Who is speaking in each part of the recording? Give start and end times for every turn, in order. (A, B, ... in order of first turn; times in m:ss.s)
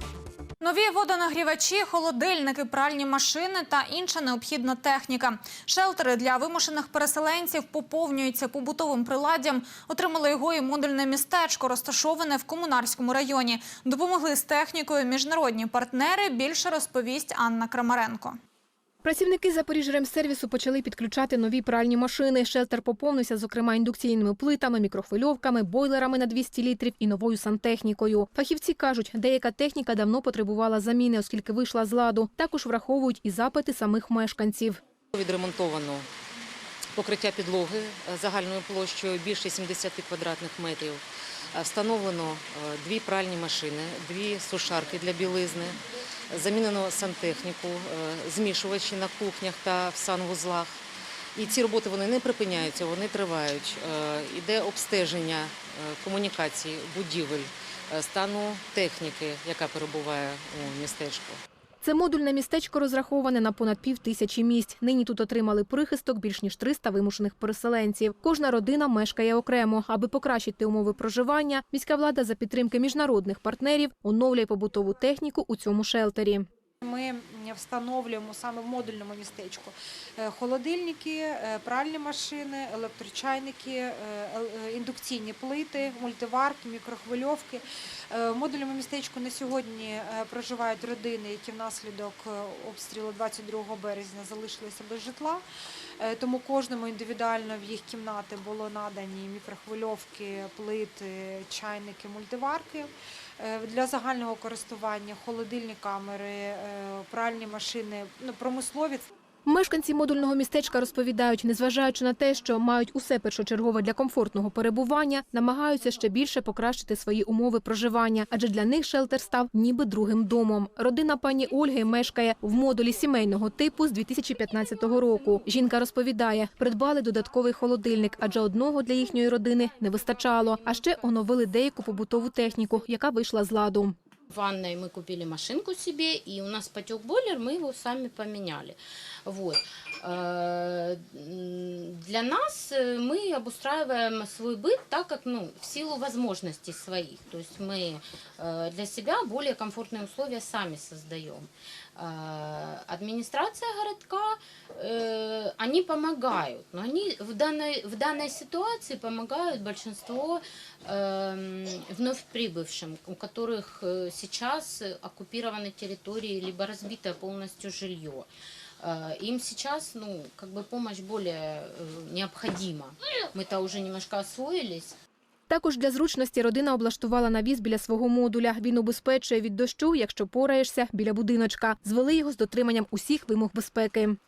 0:00.6-0:18.4 A
0:19.0-0:34.8 B
0:35.1-0:36.0 C
0:37.0-0:41.0 C
0:41.5-0:45.8 C
0:46.3-0:50.8 C
0:51.4-1:01.4 C
1:01.8-1:16.5 B
1:16.8-1:35.4 D
1:36.0-1:49.1 D
1:49.4-2:13.9 B
2:14.3-2:48.3 E
2:48.8-2:55.0 E
2:55.5-3:04.2 B